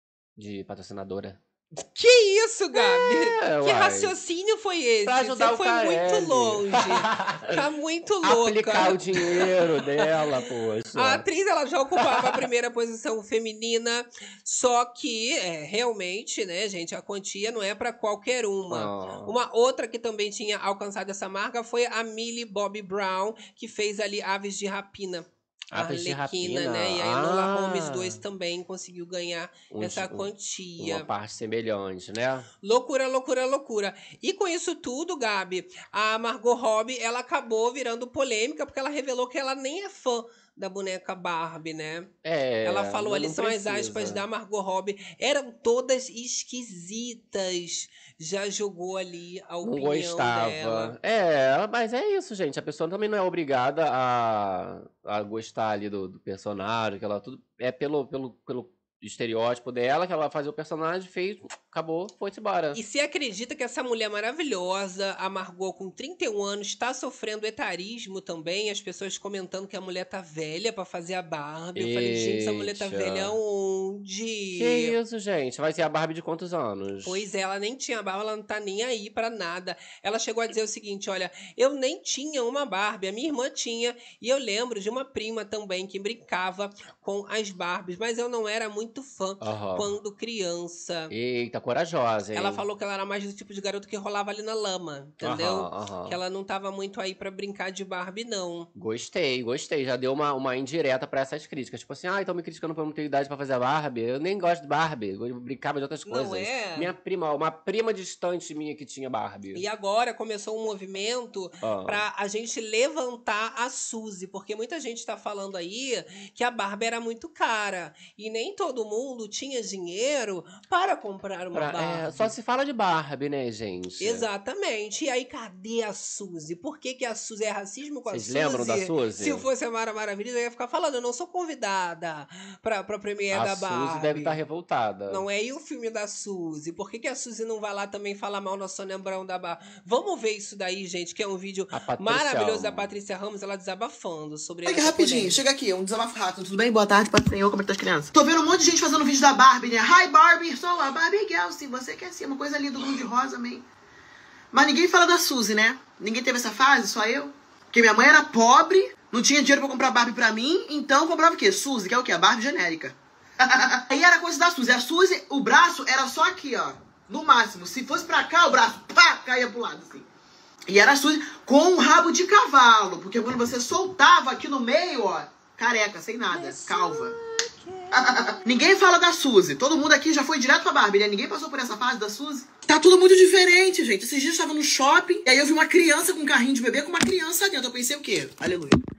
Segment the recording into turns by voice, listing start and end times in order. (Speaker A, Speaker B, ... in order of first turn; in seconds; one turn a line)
Speaker A: 0.4-1.4
Speaker B: 1.8-10.1
Speaker A: 2.7-4.1
Speaker A: 5.0-7.6
Speaker A: 8.2-11.2
Speaker B: 10.9-31.1
Speaker A: 12.0-12.4
Speaker A: 18.7-19.3
Speaker A: 25.7-28.2
Speaker A: 29.7-32.5
Speaker B: 32.6-42.1
Speaker A: 42.2-44.2
Speaker B: 42.6-51.0
Speaker A: 49.6-62.8
Speaker B: 62.7-74.9
Speaker A: 71.8-73.4
Speaker A: 74.5-77.2
Speaker B: 77.0-91.1
Speaker A: 89.4-89.9
Speaker A: 91.1-92.6
Speaker B: 92.3-98.7
Speaker A: 95.2-96.2
Speaker A: 98.7-109.6
Speaker B: 106.0-106.9
Speaker B: 109.5-122.3
Speaker A: 111.6-112.0
Speaker A: 121.5-124.2
Speaker B: 124.0-134.4
Speaker A: 128.1-129.4
Speaker A: 133.3-135.2
Speaker B: 135.1-145.4
Speaker A: 141.7-142.9
Speaker C: 144.7-153.6
Speaker C: 154.5-162.9
Speaker C: 163.9-170.0
Speaker C: 170.7-177.1
Speaker B: 176.3-178.7
Speaker C: 178.4-188.8